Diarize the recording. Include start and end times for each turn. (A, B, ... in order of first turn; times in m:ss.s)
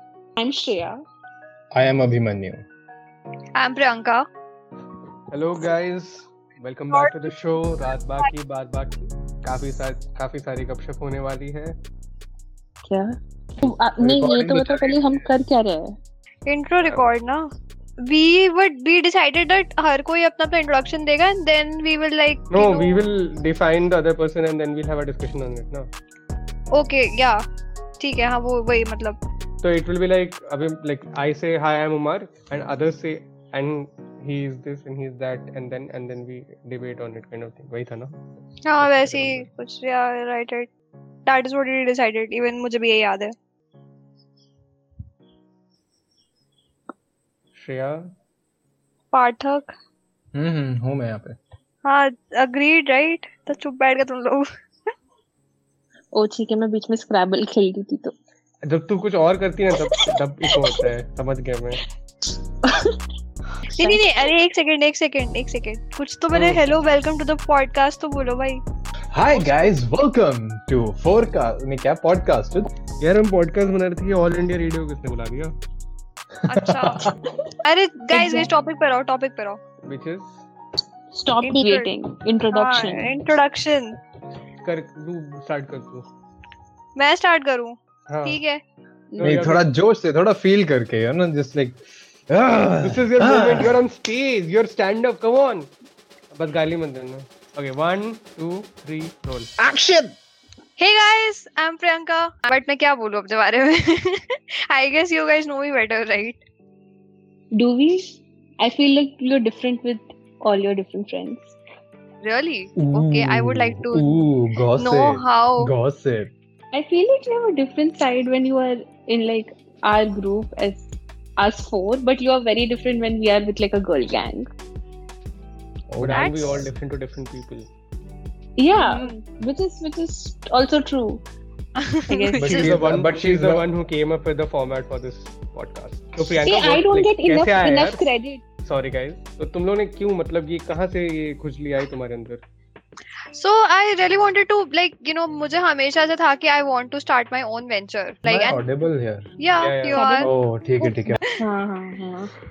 0:00.4-0:01.0 A
0:01.7-0:02.6 B
0:03.6-0:04.2 C
0:05.3-0:11.8 D
0:06.9-0:07.3 C
0:12.8-0:15.9 A
0:13.6-0:15.2 B
0:16.5-0:17.5 C
0:18.0-0:23.0 C
0:22.5-0:25.9 D
0:26.7-0:27.4 C
0:28.0-0:29.2 C
0:29.6-0:38.2 D
0:38.6-0:40.7 C
0:38.8-0:39.5 D
0:41.3-0:43.3 C
0:47.6-0:48.1 D
0:49.1-0:49.7 C
0:50.4-0:51.4 B
0:51.8-0:54.5 C
0:56.1-0:58.1 A
0:58.6-1:01.8 D
1:02.7-1:02.9 A
1:03.7-1:04.0 A
1:03.7-1:08.6 C
1:06.3-1:06.7 D
1:09.1-1:12.7 B
1:13.0-1:15.5 D
1:16.4-1:17.1 C
1:16.5-1:17.1 B
1:17.6-1:19.6 C
1:18.1-1:18.5 A
1:19.8-1:20.4 D
1:21.1-1:23.1 A
1:21.4-1:21.9 C
1:22.5-1:24.0 C
1:24.6-1:26.1 D
1:27.0-1:28.6 C
1:28.1-1:28.4 D
1:29.1-1:29.4 A
1:29.2-1:29.6 D
1:29.2-1:33.8 B
1:32.8-1:35.7 D
1:36.3-1:39.5 D
1:39.6-1:40.1 B
1:40.8-1:46.4 C
1:47.6-1:51.6 A
1:52.2-1:55.7 C
1:52.8-1:56.3 B
1:56.7-2:04.5 A
2:05.9-2:06.7 B
2:06.0-2:07.7 D
2:06.2-2:06.5 C
2:08.6-2:11.2 A
2:08.8-2:09.1 C
2:11.8-2:12.8 C
2:12.1-2:12.6 A
2:12.4-2:13.7 B
2:12.4-2:18.0 D
2:16.4-2:18.4 A
2:18.6-2:22.4 D
2:23.4-2:28.6 C
2:28.3-2:29.3 B
2:29.4-2:30.3 C
2:29.6-2:30.0 D
2:29.9-2:32.3 A
2:30.2-2:31.2 B